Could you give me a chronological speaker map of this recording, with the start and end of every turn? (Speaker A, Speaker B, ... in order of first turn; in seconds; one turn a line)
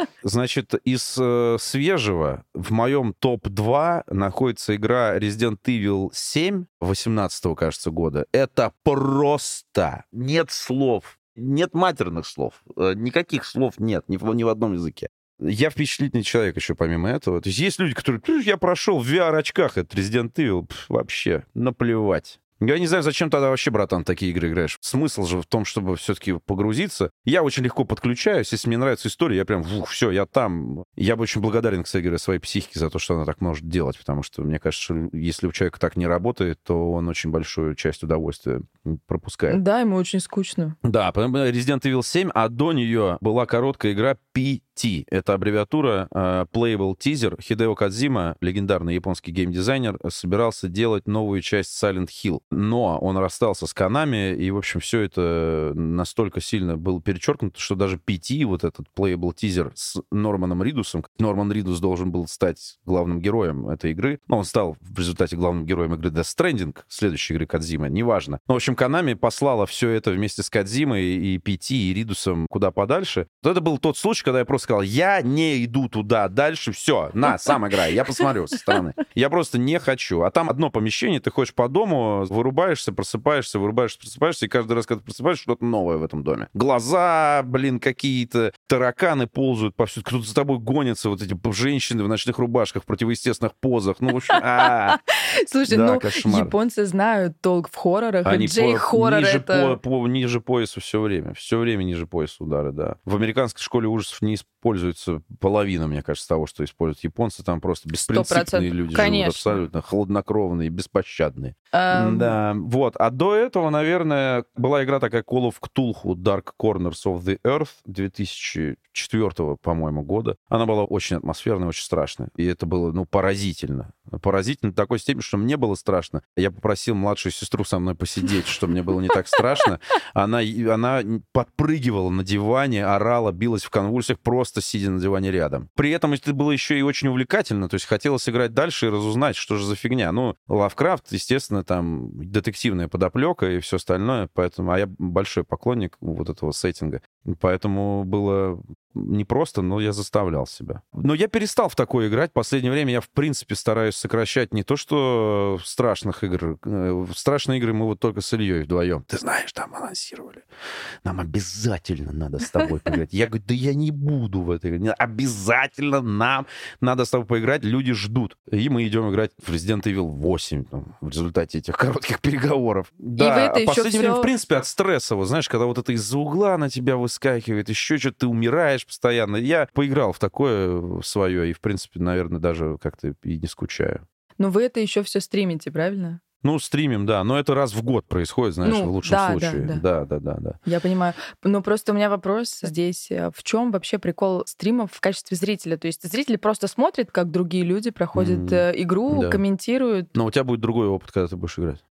Speaker A: 0.2-39.6
Speaker B: 39.5-40.8
Speaker A: 40.8-95.0
Speaker B: 94.3-99.8
Speaker A: 95.7-96.5
Speaker A: 98.2-160.4
Speaker B: 107.9-109.6
Speaker B: 111.7-112.4
Speaker A: 161.0-184.0
Speaker B: 173.2-174.3
Speaker B: 184.4-186.2
Speaker A: 186.4-190.6
Speaker B: 188.6-189.8
Speaker B: 190.6-200.1
Speaker A: 198.1-199.4
Speaker A: 200.1-201.8